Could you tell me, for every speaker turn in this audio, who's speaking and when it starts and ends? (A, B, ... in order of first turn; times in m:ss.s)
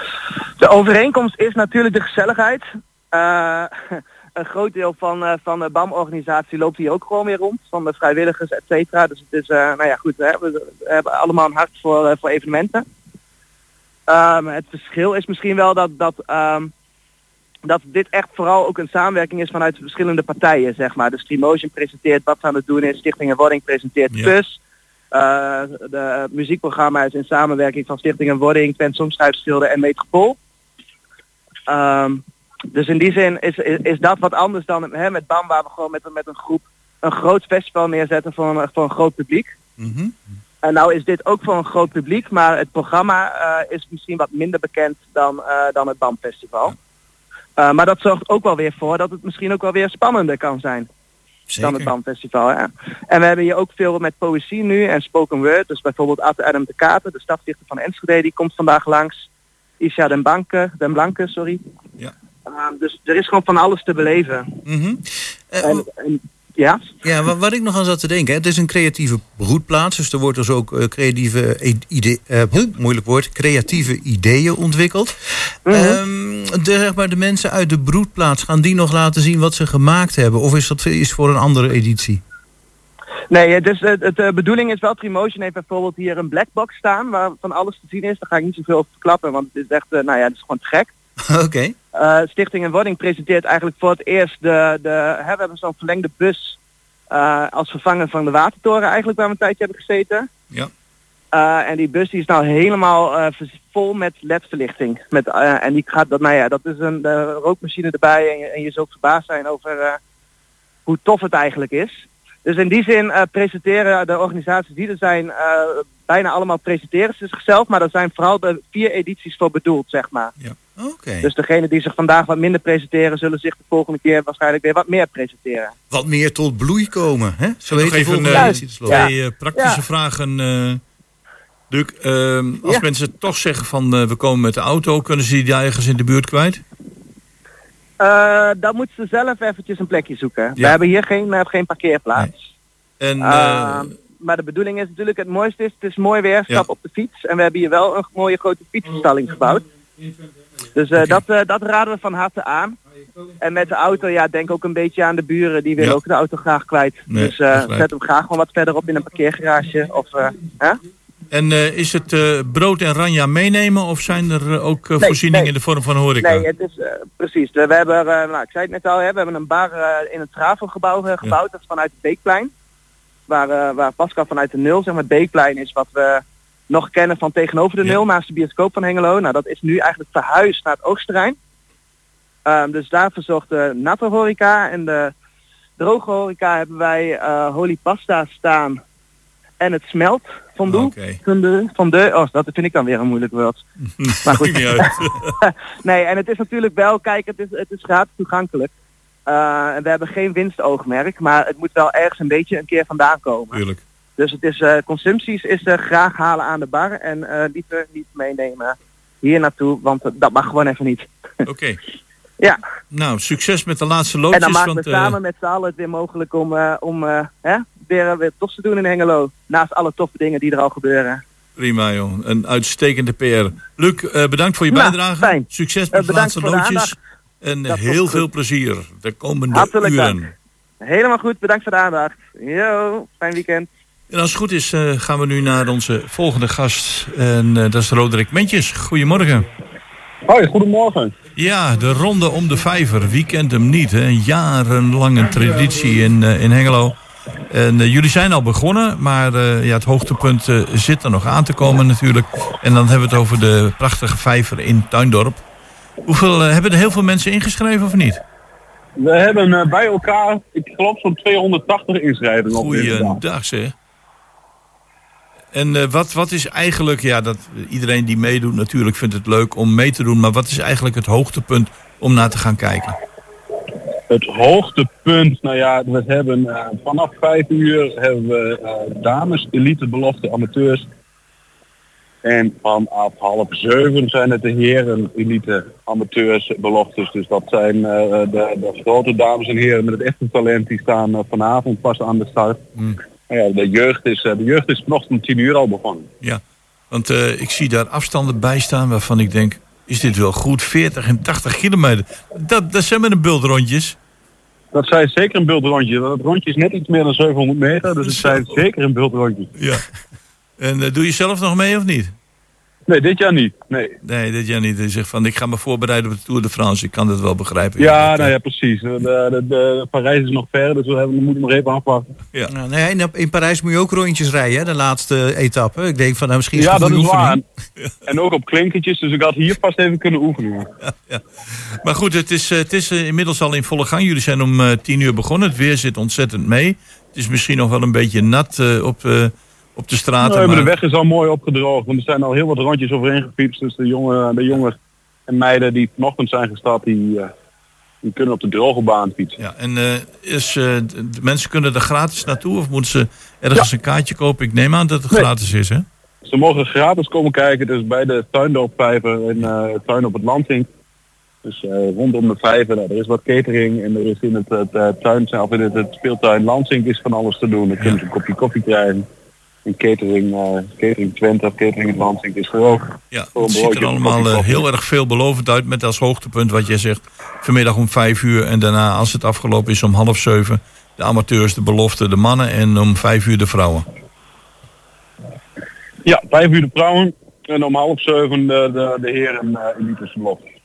0:00.6-0:12.9 A
0:14.1-0:16.7 A
0:17.6-0:24.6 A
0:25.1-0:30.4 A
0:31.7-0:39.5 A
0:39.8-0:40.1 B
0:40.6-0:46.7 A
0:47.6-0:50.9 A
0:51.5-0:51.9 B
0:51.6-0:59.2 A
0:59.8-1:01.6 A
1:02.5-1:04.6 A
1:04.7-1:05.9 B
1:05.6-1:06.9 A
1:07.0-1:22.2 B
1:15.7-1:16.0 A
1:23.3-1:30.9 A
1:31.2-1:31.8 B
1:32.0-1:36.6 A
1:37.1-1:40.3 A
1:41.3-1:50.0 A
1:50.9-2:00.3 A
2:00.8-2:01.3 B
2:01.2-2:05.7 A
2:05.9-2:09.0 B
2:07.7-2:10.8 C
2:08.3-2:09.8 A
2:11.7-2:16.6 C
2:18.0-2:22.3 A
2:23.0-2:23.9 C
2:23.2-2:29.6 A
2:30.8-2:32.8 A
2:31.0-2:31.2 C
2:33.4-2:40.8 A
2:37.1-2:37.9 C
2:41.3-2:46.5 C
2:45.0-2:45.5 A
2:46.2-2:52.5 A
2:53.3-3:01.4 A
3:02.5-3:05.1 A
3:05.8-3:08.8 A
3:09.6-3:13.6 A
3:10.7-3:11.2 C
3:14.0-3:15.3 C
3:14.2-3:18.7 A
3:19.3-3:23.6 A
3:23.5-3:23.8 C
3:24.2-3:31.1 A
3:31.5-3:31.8 C
3:32.9-3:35.2 C
3:34.3-3:41.2 A
3:41.6-3:50.3 C
3:44.7-3:47.0 A
3:47.7-3:48.2 A
3:49.5-3:50.3 A
3:50.8-3:53.7 A
3:54.1-3:59.5 C
4:00.3-4:01.2 D
4:01.4-4:07.0 C
4:07.5-4:15.4 C
4:16.0-4:18.2 C
4:19.0-4:23.2 D
4:22.5-4:23.7 C
4:25.5-4:33.0 C
4:34.1-4:40.9 D
4:42.2-4:52.6 D
4:53.3-4:56.1 D
4:56.2-5:04.0 C
5:04.7-5:09.5 D
5:08.0-5:08.6 C
5:09.6-5:09.8 C
5:10.6-5:12.1 C
5:12.9-5:14.0 D
5:14.0-5:18.3 C
5:17.8-5:22.1 D
5:22.5-5:27.4 B
5:26.6-5:27.4 D
5:28.1-5:30.7 D
5:30.8-5:40.7 C
5:40.2-5:47.3 D
5:48.0-5:49.4 D
5:49.4-5:55.9 C
5:56.2-6:00.7 D
6:01.4-6:09.1 D
6:09.6-6:14.6 D
6:13.1-6:23.9 C
6:26.0-6:30.4 D